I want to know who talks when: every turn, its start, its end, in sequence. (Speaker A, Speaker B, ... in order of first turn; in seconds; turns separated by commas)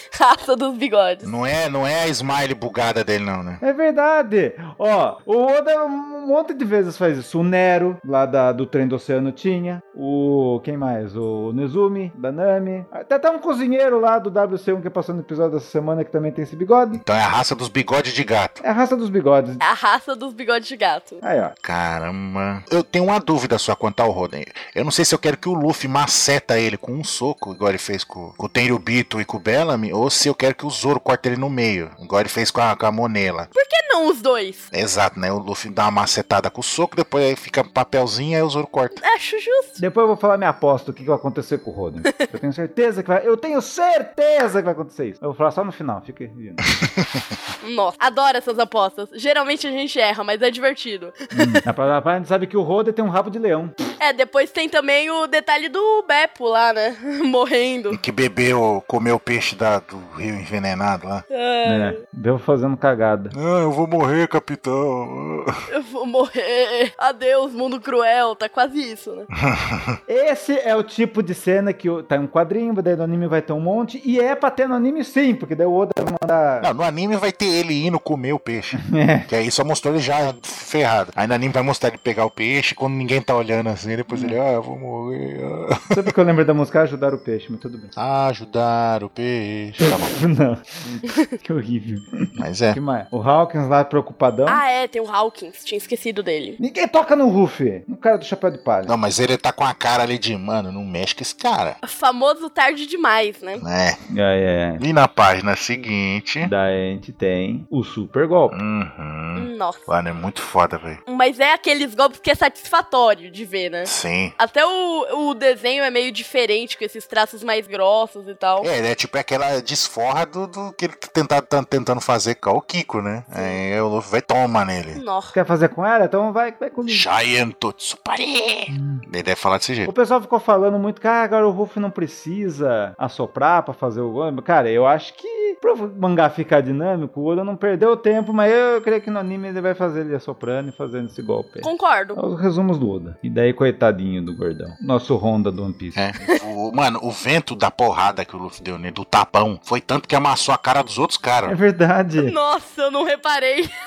Speaker A: 0.1-1.3, Speaker B: 1.2-3.6, Speaker C: 3.6-17.0, Speaker B: 16.9-18.6, Speaker C: 18.6-19.6, Speaker A: 19.6-21.2, Speaker C: 21.2-21.5, Speaker B: 21.6-33.5, Speaker A: 33.5-34.7, Speaker B: 34.7-39.0, Speaker A: 39.0-39.8, Speaker C: 39.8-46.6, Speaker A: 47.6-51.6, Speaker C: 51.3-53.8, Speaker A: 54.0-58.0, Speaker B: 57.9-61.2, Speaker A: 61.3-62.0, Speaker C: 61.6-63.3, Speaker B: 63.3-65.6, Speaker A: 65.7-69.3, Speaker B: 69.3-70.0, Speaker C: 70.1-76.7, Speaker B: 76.6-86.0, Speaker C: 78.8-79.3, Speaker C: 84.1-84.4, Speaker C: 85.9-87.9, Speaker B: 88.0-90.2, Speaker C: 89.8-94.6, Speaker B: 92.4-92.8, Speaker A: 94.5-96.6, Speaker C: 96.6-98.9, Speaker B: 98.9-101.8, Speaker A: 101.8-103.6, Speaker B: 103.6-104.0, Speaker C: 104.1-104.8, Speaker B: 104.8-106.5, Speaker C: 106.4-108.5, Speaker B: 108.5-111.0, Speaker A: 109.3-109.9, Speaker A: 111.0-118.7, Speaker B: 113.9-114.3, Speaker B: 118.6-125.0, Speaker A: 123.3-123.6, Speaker A: 124.9-125.3, Speaker C: 125.3-127.1, Speaker B: 126.9-129.9, Speaker C: 128.7-129.0, Speaker C: 129.9-146.0, Speaker A: 141.6-142.2, Speaker B: 145.9-151.6, Speaker C: 151.4-152.3, Speaker A: 152.2-153.7